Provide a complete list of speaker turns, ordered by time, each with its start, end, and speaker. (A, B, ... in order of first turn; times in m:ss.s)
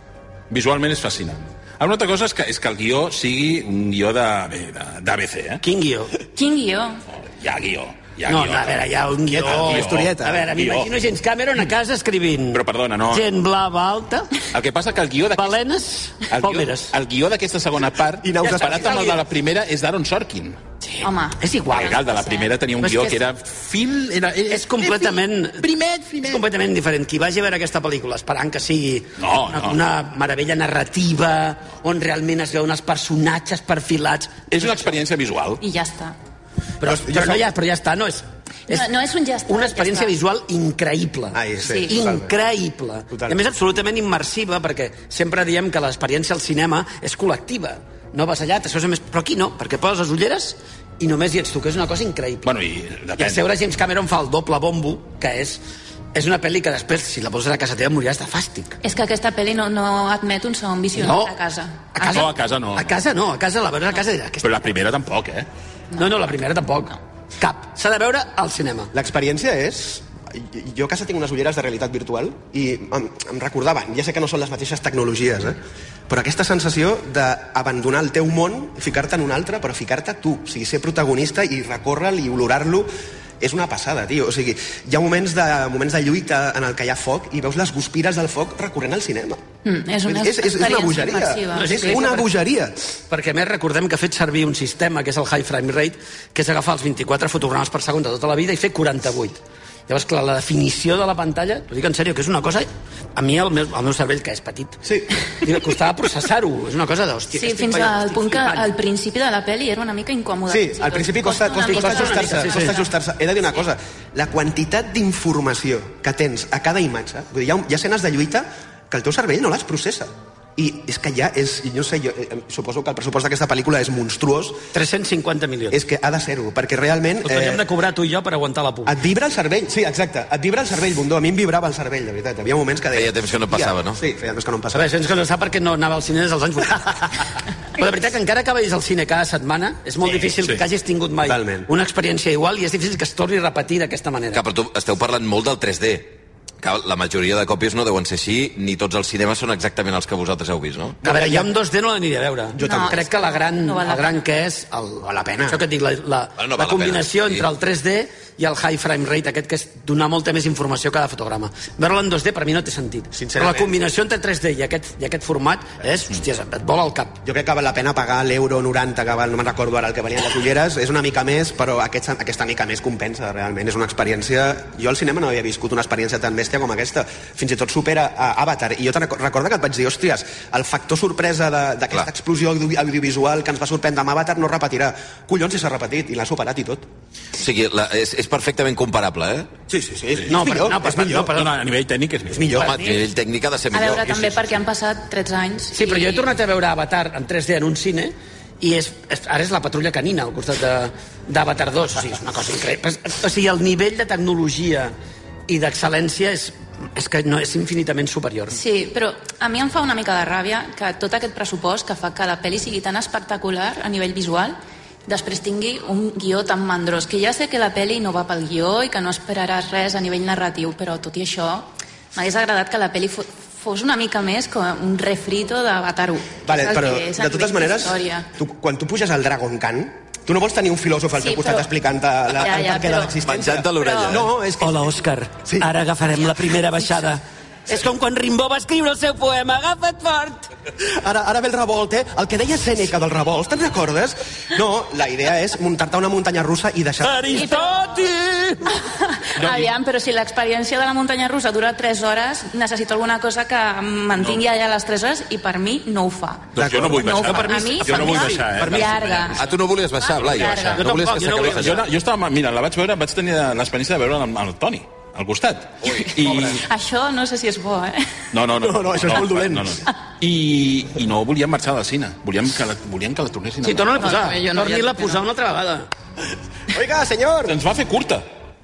0:00.5-0:05.6 A
0:05.6-0:06.1 B
0:06.3-0:07.0 C
0:07.3-0:08.9 A
0:08.2-0:14.3 B
0:09.3-0:10.5 D
0:09.4-0:10.9 A
0:12.5-0:13.3 A
0:14.5-0:15.6 A
0:15.4-0:16.9 B
0:16.3-0:20.6 A
0:18.2-0:19.2 D
0:18.4-0:19.1 B
0:20.8-0:22.2 B
0:21.0-0:21.4 C
0:21.7-0:26.4 A
0:22.8-0:23.2 B
0:24.5-0:25.7 B
0:26.2-0:34.9 B
0:29.2-0:29.8 A
0:34.5-0:35.6 A
0:35.6-0:36.2 C
0:36.8-0:38.8 B
0:36.8-0:37.4 D
0:38.7-0:40.1 C
0:39.5-0:52.5 B
0:41.3-0:42.3 D
0:41.6-0:42.0 C
0:43.1-0:43.4 D
0:52.4-0:53.4 A
0:53.2-0:55.6 B
0:56.1-0:58.8 B
0:58.8-1:02.3 C
1:00.9-1:01.3 B
1:01.9-1:04.7 B
1:02.0-1:03.0 A
1:04.4-1:05.5 A
1:06.0-1:08.9 B
1:08.9-1:22.9 D
1:23.4-1:29.4 D
1:29.6-1:32.0 C
1:30.0-1:32.8 D
1:31.5-1:32.3 B
1:33.1-1:44.8 B
1:44.8-1:45.1 D
1:45.4-1:48.7 B
1:47.3-1:52.9 C
1:50.5-2:04.6 D
1:51.6-1:52.7 B
2:04.7-2:05.8 B
2:05.7-2:07.6 D
2:07.2-2:08.9 B
2:08.8-2:14.9 D
2:12.9-2:14.0 E
2:14.7-2:17.1 B
2:17.8-2:24.4 B
2:21.2-2:21.7 D
2:24.3-2:31.0 E
2:31.0-2:31.5 D
2:31.0-2:47.2 B
2:32.5-2:33.0 D
2:32.6-2:34.2 C
2:35.0-2:35.6 D
2:36.4-2:37.4 E
2:43.1-2:43.7 D
2:47.2-3:06.9 D
3:07.4-3:09.5 E
3:09.7-3:11.4 D
3:10.3-3:11.5 B
3:11.3-3:12.7 A
3:12.3-3:12.8 D
3:12.6-3:14.6 E
3:12.6-3:12.9 B
3:13.7-3:16.2 C
3:15.7-3:24.9 B
3:25.5-3:28.6 B
3:28.5-3:48.2 C
3:46.4-3:55.7 D
3:51.2-3:51.7 C
3:52.3-3:53.2 C
3:53.2-3:54.3 E
3:53.8-3:54.2 C
3:54.6-4:00.5 B
4:00.8-4:07.4 D
4:07.0-4:08.7 B
4:07.3-4:08.0 C
4:08.7-4:19.4 C
4:16.5-4:19.4 A
4:16.6-4:17.1 D
4:17.1-4:18.9 B
4:19.4-4:21.8 E
4:20.0-4:20.8 C
4:20.2-4:20.8 A
4:20.7-4:21.8 B
4:21.4-4:26.6 A
4:25.8-4:26.3 E
4:25.9-4:28.1 C
4:28.3-4:34.0 A
4:28.6-4:29.8 D
4:33.6-4:35.9 B
4:34.0-4:35.2 C
4:36.7-4:37.6 D
4:37.4-4:38.2 A